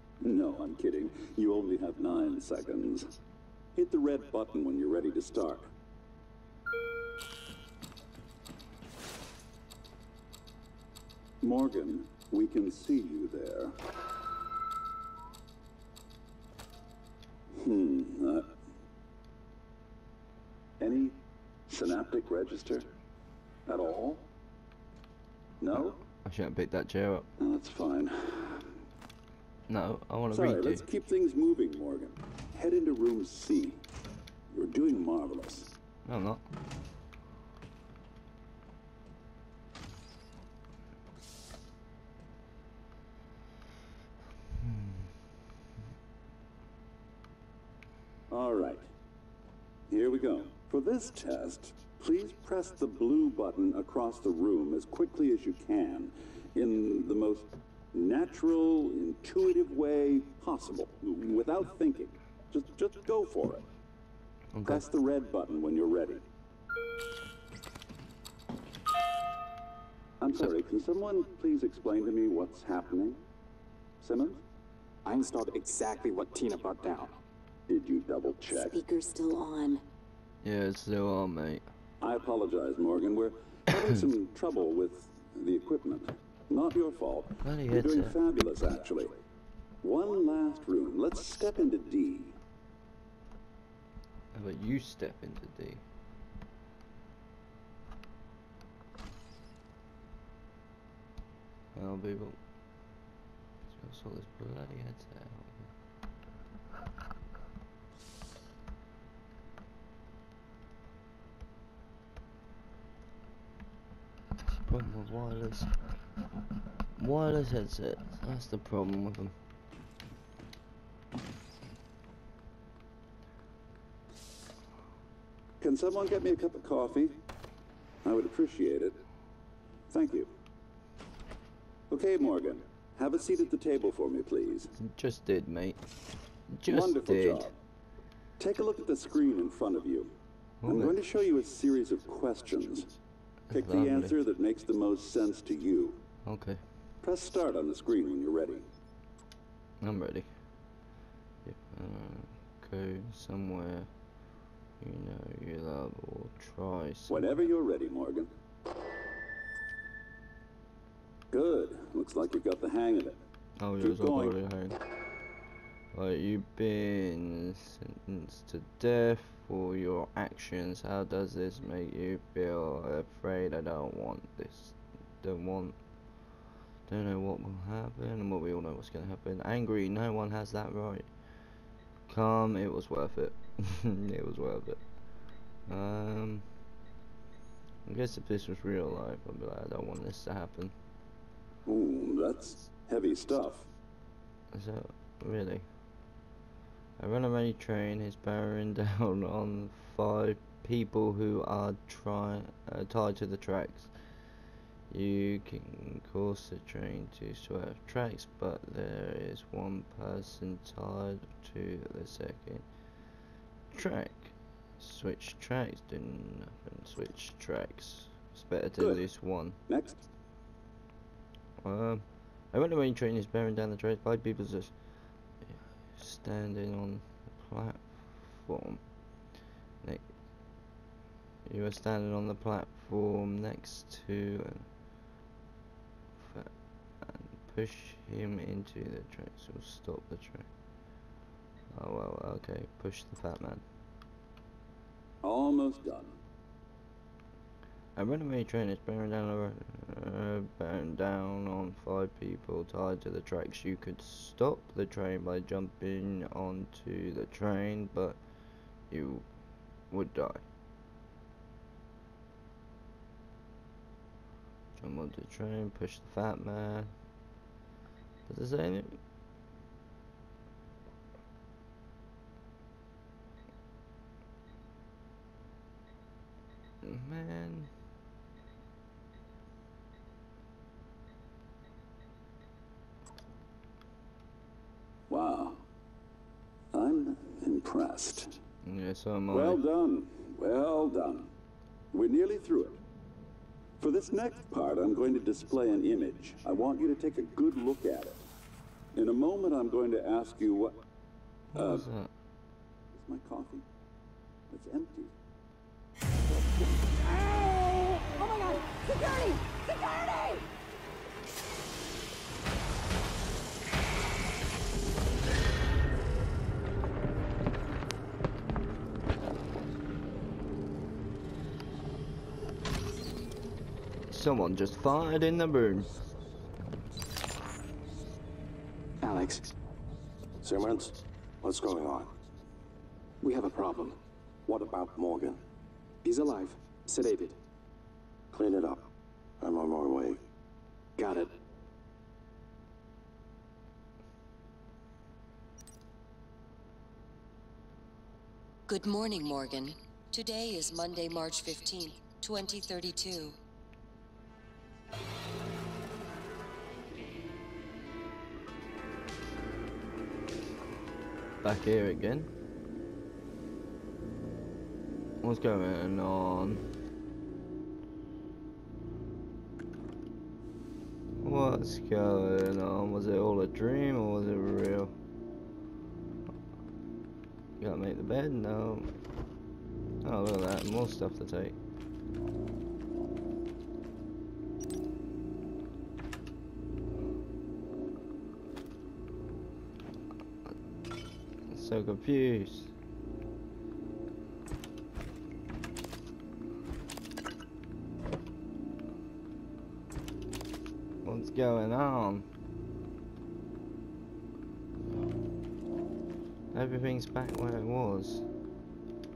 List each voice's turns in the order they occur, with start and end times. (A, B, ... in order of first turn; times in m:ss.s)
0:00.2-0:03.1 A
0:03.7-0:05.7 A
0:11.4-0:13.7 A
0:17.5-0:18.5 A
0:20.8-0:22.9 A
0:23.6-0:24.2 A
0:25.6-0:26.0 A
0:26.2-0:27.3 B
0:27.4-0:28.7 A
0:29.7-0:30.8 B
0:30.3-0:33.8 A
0:34.5-0:35.7 A
0:36.0-0:36.4 B
0:44.7-0:44.9 B
0:48.3-0:48.9 A
0:49.9-1:03.6 A
1:04.5-1:04.8 B
1:04.6-1:06.2 A
1:10.2-1:13.2 A
1:14.0-1:14.4 A
1:15.0-1:17.1 C
1:17.7-1:18.8 A
1:18.6-1:19.8 D
1:20.4-1:21.6 B
1:22.0-1:29.2 A
1:27.4-1:28.2 B
1:29.8-1:32.4 A
1:34.3-1:35.8 B
1:41.7-1:42.4 B
1:43.7-1:45.7 B
1:54.6-1:55.7 B
1:57.0-1:59.3 B
2:05.6-2:07.2 A
2:08.0-2:09.0 A
2:09.9-2:10.3 A
2:11.9-2:14.7 A
2:14.7-2:15.8 B
2:16.5-2:17.5 B
2:16.6-2:17.6 A
2:18.4-2:20.1 A
2:20.6-2:21.0 B
2:20.6-2:22.9 A
2:23.5-2:24.1 B
2:23.5-2:26.0 A
2:26.2-2:26.6 B
2:27.0-2:28.7 A
2:29.8-2:30.3 B
2:31.4-2:33.9 B
2:34.8-2:37.3 B
2:37.1-2:38.3 A
2:41.3-2:43.2 A
2:43.6-2:44.8 B
2:43.8-2:44.4 A
2:45.9-2:55.8 B
2:56.9-3:01.1 B
3:02.1-3:04.8 B
3:05.7-3:06.4 B
3:07.8-3:10.7 B
3:11.6-3:13.7 A
3:14.5-3:15.6 B
3:17.0-3:23.9 B
3:24.9-3:32.6 B
3:33.7-3:39.6 B
3:39.7-3:40.0 A
3:41.6-3:44.7 B
3:45.9-3:48.8 B
3:49.8-3:50.1 B
3:51.4-3:54.7 B
3:56.2-3:56.5 B
3:57.0-4:00.5 B
4:01.7-4:03.6 B
4:05.2-4:06.2 A
4:08.0-4:18.2 B
4:18.9-4:19.2 B
4:19.9-4:20.4 B
4:24.8-4:26.9 B
4:28.3-4:29.0 B
4:36.8-4:37.7 B
4:45.1-4:45.6 A
4:46.7-4:48.4 A
4:48.6-4:49.6 B
4:49.3-4:51.3 A
4:51.9-4:52.8 A
4:53.8-4:58.2 A
4:58.9-5:00.8 A
5:01.5-5:02.1 B
5:01.5-5:01.9 A
5:02.9-5:03.6 A
5:04.5-5:05.1 A
5:08.1-5:10.4 D
5:24.1-5:25.9 B
5:29.0-5:29.5 C
5:30.4-5:32.1 E
5:33.2-5:34.0 C
5:34.4-5:35.4 E
5:36.0-5:37.4 C
5:38.3-5:38.8 E
5:39.4-5:40.2 E
5:41.0-5:41.3 C
5:48.7-5:53.4 F
6:01.4-6:02.3 B
6:05.2-6:06.6 B
6:11.2-6:14.9 B
6:17.6-6:18.9 B
6:20.0-6:21.6 B
6:31.5-6:32.7 B
6:41.0-6:42.3 B
6:46.5-6:48.2 B